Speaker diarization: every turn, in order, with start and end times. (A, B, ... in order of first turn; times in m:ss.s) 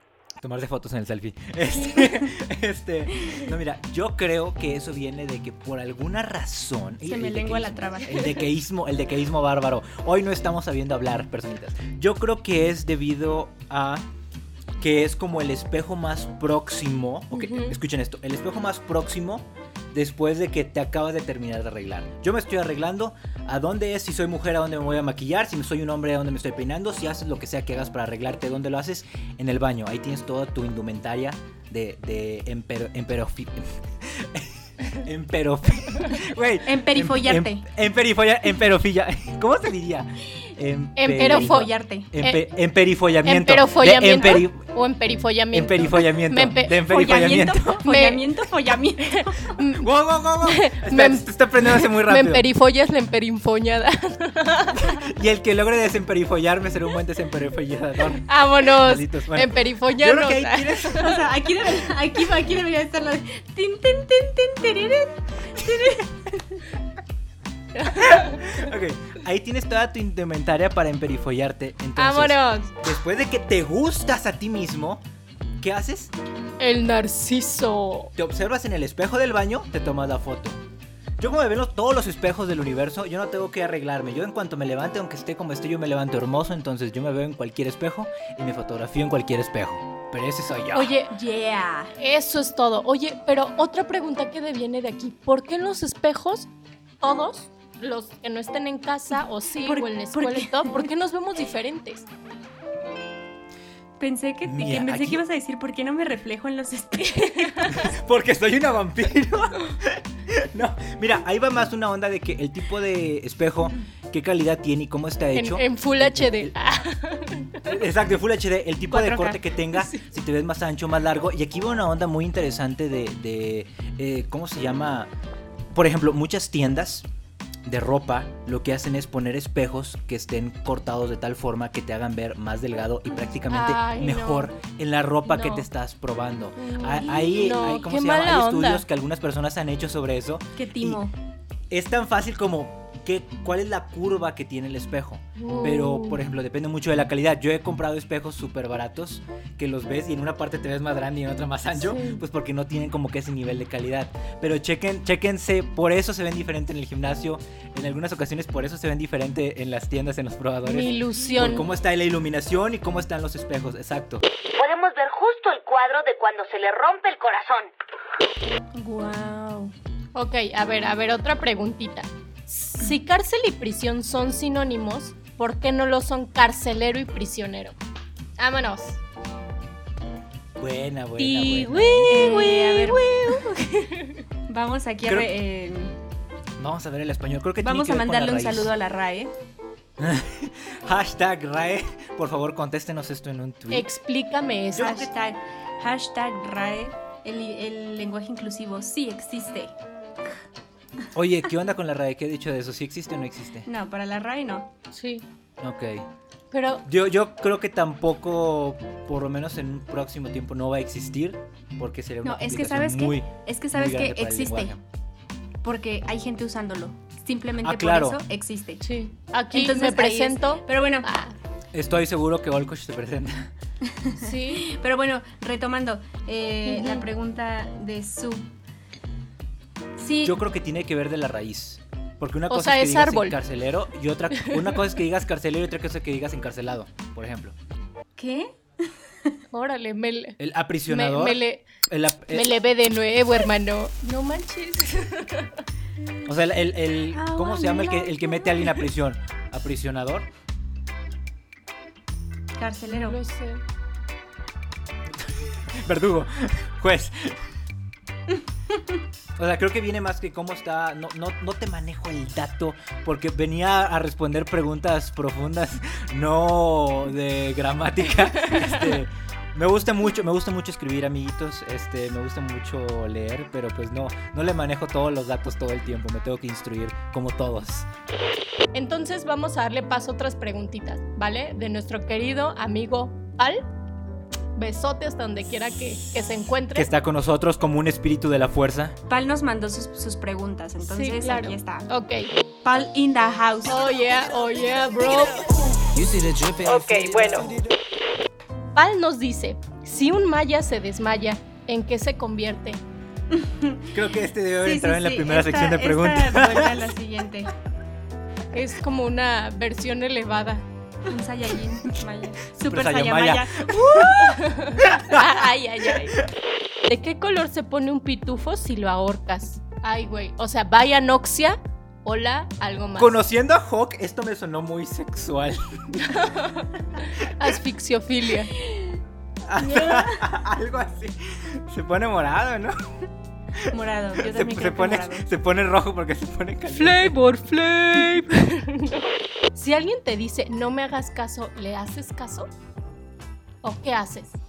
0:00.4-0:14.1 A
0:07.1-0:08.4 B
0:14.8-0:44.6 A
0:17.3-0:17.8 C
0:36.6-0:37.7 B
0:41.0-0:41.7 C
0:41.1-0:42.1 B
0:43.2-0:46.8 C
0:45.5-0:47.8 A
0:46.8-0:49.6 B
0:47.8-0:48.2 C
0:49.1-0:49.8 C
0:49.8-0:52.4 A
0:50.4-0:55.0 C
0:54.7-1:01.2 A
0:58.3-1:01.1 C
1:00.9-1:06.6 B
1:07.7-1:08.5 C
1:07.9-1:15.0 A
1:12.0-1:12.7 C
1:15.6-1:16.1 A
1:16.6-1:18.1 C
1:18.2-1:20.6 A
1:21.2-1:30.9 A
1:30.7-1:31.1 C
1:31.1-1:31.9 B
1:32.0-1:36.5 C
1:37.0-1:42.1 C
1:39.6-1:40.9 B
1:44.0-1:47.7 B
1:44.4-1:45.2 A
1:47.0-1:47.8 C
1:47.7-1:56.5 A
1:55.3-1:57.7 C
1:57.6-2:05.1 A
1:58.9-1:59.5 B
1:59.7-2:00.0 C
2:05.7-2:07.1 A
2:07.6-2:21.0 A
2:13.5-2:14.5 C
2:15.3-2:15.6 C
2:16.6-2:18.8 C
2:20.6-2:21.1 B
2:21.7-2:44.2 A
2:25.4-2:26.2 C
2:31.8-2:32.2 C
2:40.6-2:41.6 C
2:44.6-2:47.7 D
2:48.7-2:49.7 B
2:50.1-2:57.7 C
2:58.4-2:59.0 C
3:00.6-3:02.2 A
3:01.2-3:04.2 C
3:02.0-3:03.4 B
3:04.5-3:05.9 B
3:05.0-3:05.3 A
3:06.6-3:08.7 A
3:07.6-3:09.3 B
3:10.0-3:13.9 A
3:13.7-3:15.0 C
3:14.7-3:15.1 A
3:14.8-3:19.7 B
3:21.1-3:23.7 A
3:23.6-3:24.7 B
3:24.9-3:25.2 C
3:25.6-3:26.1 A
3:26.5-3:26.8 C
3:26.8-3:34.8 A
3:32.2-3:34.7 B
3:35.6-3:38.9 B
3:37.6-3:38.2 A
3:38.8-3:41.3 C
3:39.5-3:41.1 B
3:41.7-3:43.5 A
3:43.8-3:48.5 B
3:44.2-3:44.7 C
3:46.6-3:47.0 C
3:50.0-3:50.4 B
3:50.2-3:57.5 A
3:52.5-3:53.4 C
3:58.2-3:59.4 B
3:59.5-4:01.6 C
4:00.4-4:02.5 A
4:02.3-4:05.5 C
4:06.2-4:10.3 A
4:07.1-4:08.9 B
4:12.6-4:13.2 B
4:12.9-4:13.6 C
4:15.1-4:17.4 A
4:19.4-4:37.9 A
4:28.6-4:28.9 C
4:38.7-4:43.7 C
4:44.6-4:46.9 C
4:46.7-4:49.0 A
4:49.1-4:51.9 B
4:50.8-4:52.3 C
4:52.6-4:53.9 B
4:53.7-4:55.7 C
4:55.9-4:57.7 A
4:56.6-4:57.5 C
4:58.7-5:02.8 C
5:03.3-5:04.0 B
5:03.9-5:06.9 A
5:04.6-5:07.5 B
5:08.5-5:10.6 C
5:11.0-5:14.4 B
5:12.6-5:14.3 A
5:14.0-5:16.2 C
5:14.8-5:16.3 A
5:16.9-5:23.2 C
5:23.0-5:26.1 A
5:26.0-5:28.5 C
5:28.6-5:29.0 B
5:29.5-5:32.8 A
5:29.6-5:30.3 B
5:33.5-5:37.2 A
5:33.7-5:35.3 B
5:36.7-5:42.5 C
5:43.6-5:44.4 C